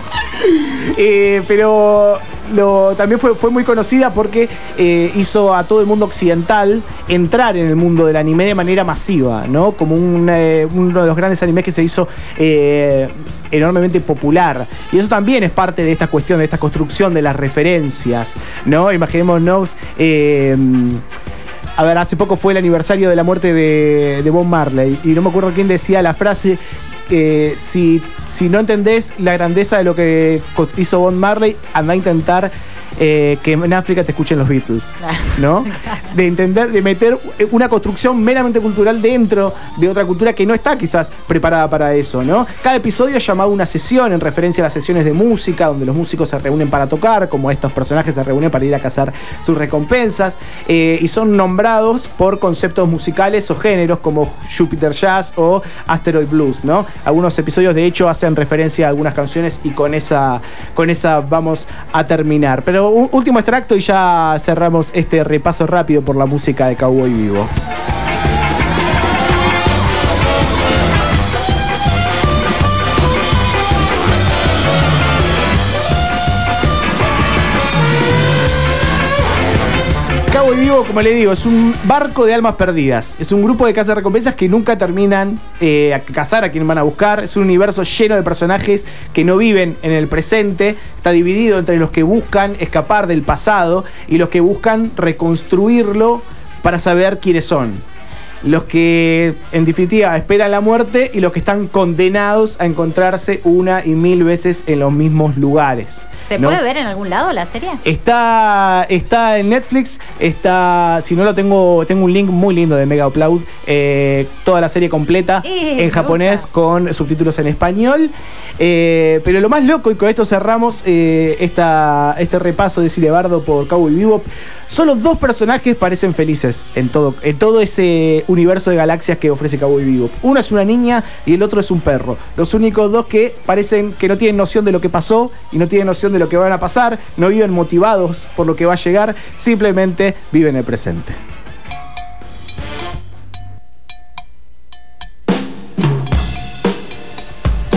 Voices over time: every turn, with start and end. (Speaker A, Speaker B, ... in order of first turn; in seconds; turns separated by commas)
Speaker A: 0.3-21.0, Speaker A: 21.8-67.5, Speaker B: 35.0-36.0, Speaker A: 80.3-97.8, Speaker A: 98.4-106.6, Speaker B: 106.2-107.8, Speaker A: 107.8-141.2, Speaker B: 115.4-116.5